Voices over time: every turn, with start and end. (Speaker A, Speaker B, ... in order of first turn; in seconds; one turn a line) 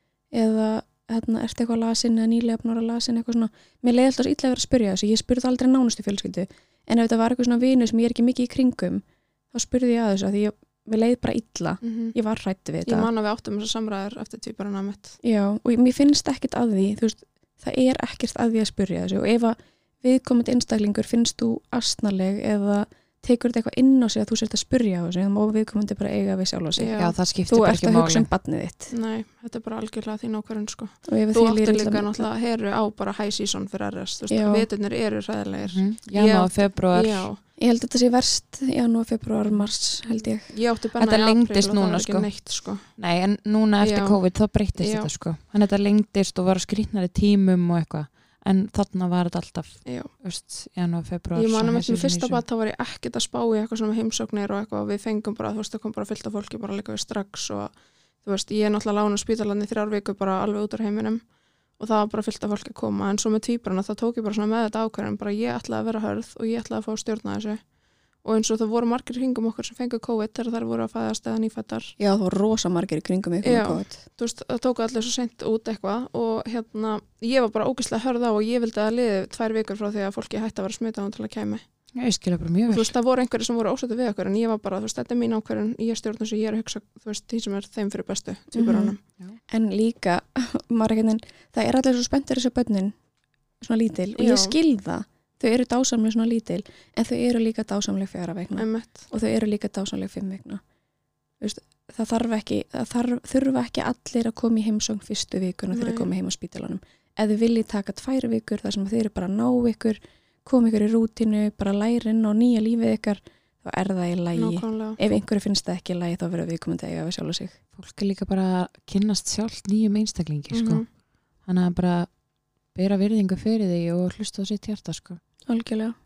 Speaker A: 0.3-13.1
Speaker B: 11.8-12.1
Speaker B: 12.8-15.2
Speaker A: 15.2-28.9
Speaker B: 26.7-27.1
Speaker C: 26.9-28.3
Speaker B: 28.9-37.4
Speaker A: 31.1-32.3
Speaker A: 34.3-34.7
Speaker C: 35.6-37.3
Speaker A: 37.6-40.6
Speaker B: 40.2-43.0
Speaker C: 41.0-42.3
Speaker C: 42.8-52.4
Speaker B: 43.8-44.2
Speaker B: 44.8-45.1
Speaker B: 49.8-50.1
Speaker B: 51.3-67.7
Speaker B: 68.2-72.0
Speaker A: 72.0-74.0
Speaker B: 73.4-81.6
Speaker C: 82.0-82.9
Speaker B: 82.7-89.0
Speaker A: 88.5-89.0
Speaker A: 89.5-93.0
Speaker A: 93.6-100.6
Speaker B: 94.2-94.5
Speaker B: 98.6-99.1
Speaker A: 101.4-117.5
Speaker B: 105.7-106.1
Speaker B: 114.3-115.0
Speaker C: 117.8-120.8
Speaker B: 120.5-120.8
Speaker C: 121.4-122.1
Speaker C: 122.7-125.2
Speaker A: 125.5-125.9